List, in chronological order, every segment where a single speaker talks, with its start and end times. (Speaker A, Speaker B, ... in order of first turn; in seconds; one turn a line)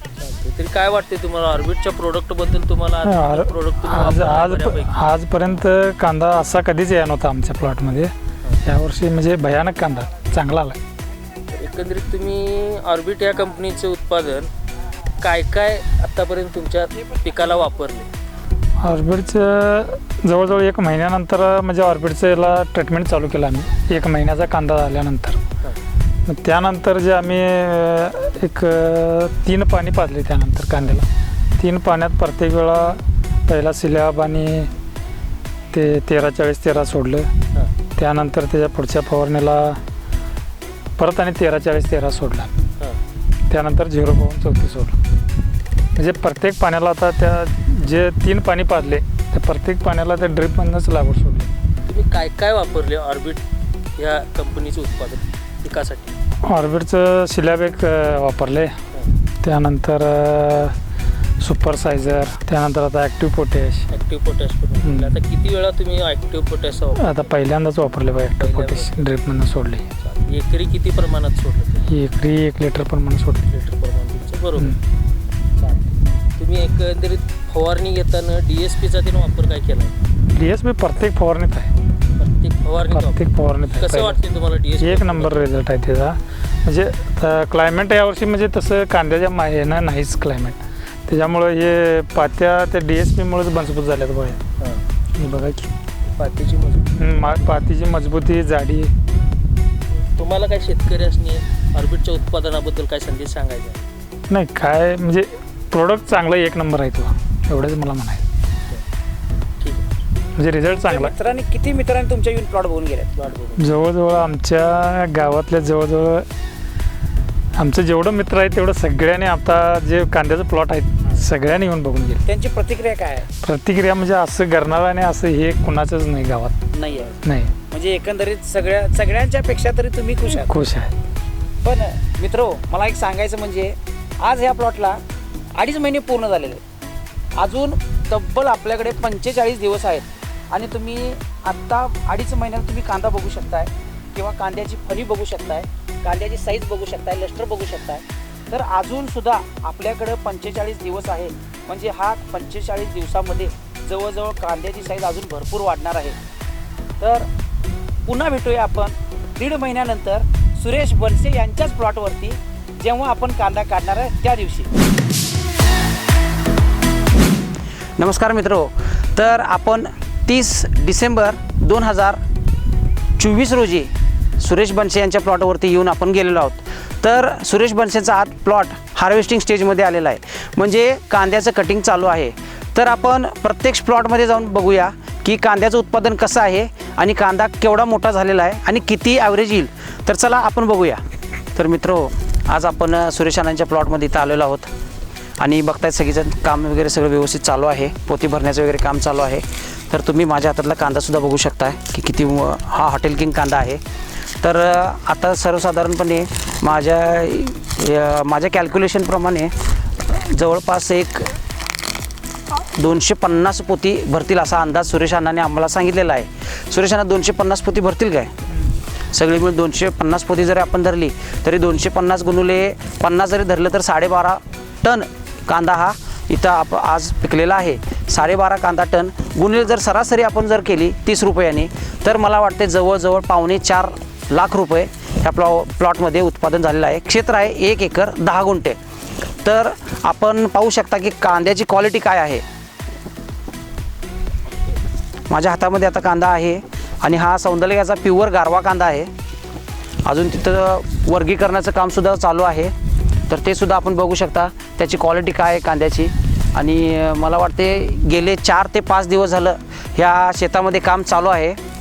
Speaker A: 0.2-5.1
Speaker B: 3.0-8.1
Speaker B: 8.6-10.8
Speaker A: 11.5-14.5
Speaker A: 15.2-18.1
Speaker B: 18.8-25.4
Speaker B: 26.3-34.7
Speaker B: 35.7-37.3
Speaker B: 38.0-39.8
Speaker B: 41.0-42.5
Speaker B: 43.5-45.0
Speaker B: 46.0-51.5
Speaker A: 51.9-53.4
Speaker A: 54.0-56.1
Speaker B: 56.4-58.8
Speaker B: 59.4-60.8
Speaker B: 61.4-63.9
Speaker A: 63.9-67.5
Speaker B: 64.8-65.2
Speaker B: 67.0-69.9
Speaker A: 68.4-69.1
Speaker A: 70.0-71.9
Speaker B: 71.9-73.5
Speaker A: 73.5-74.8
Speaker A: 75.6-80.0
Speaker B: 80.3-81.7
Speaker A: 82.2-85.5
Speaker B: 82.9-84.2
Speaker B: 84.8-94.4
Speaker A: 94.6-94.8
Speaker B: 95.1-95.7
Speaker A: 96.1-97.6
Speaker B: 97.0-98.9
Speaker A: 100.1-103.8
Speaker B: 104.3-108.3
Speaker A: 109.6-109.9
Speaker B: 110.3-111.1
Speaker C: 110.7-113.1
Speaker A: 113.2-113.6
Speaker B: 113.6-116.3
Speaker B: 117.5-122.2
Speaker C: 122.2-123.3
Speaker B: 123.4-126.6
Speaker C: 126.7-127.1
Speaker B: 127.2-127.5
Speaker C: 127.7-130.5
Speaker B: 130.3-130.9
Speaker C: 131.6-135.0
Speaker C: 135.6-136.6
Speaker C: 137.3-156.2
Speaker C: 157.0-157.3
Speaker C: 158.1-164.7
Speaker C: 168.0-172.2
Speaker C: 173.2-191.0
Speaker C: 191.5-194.7
Speaker C: 195.4-203.8
Speaker C: 204.4-211.4
Speaker C: 212.5-218.3
Speaker C: 219.1-238.8
Speaker C: 239.4-242.4
Speaker C: 245.3-249.1
Speaker C: 250.1-252.7
Speaker C: 253.3-261.6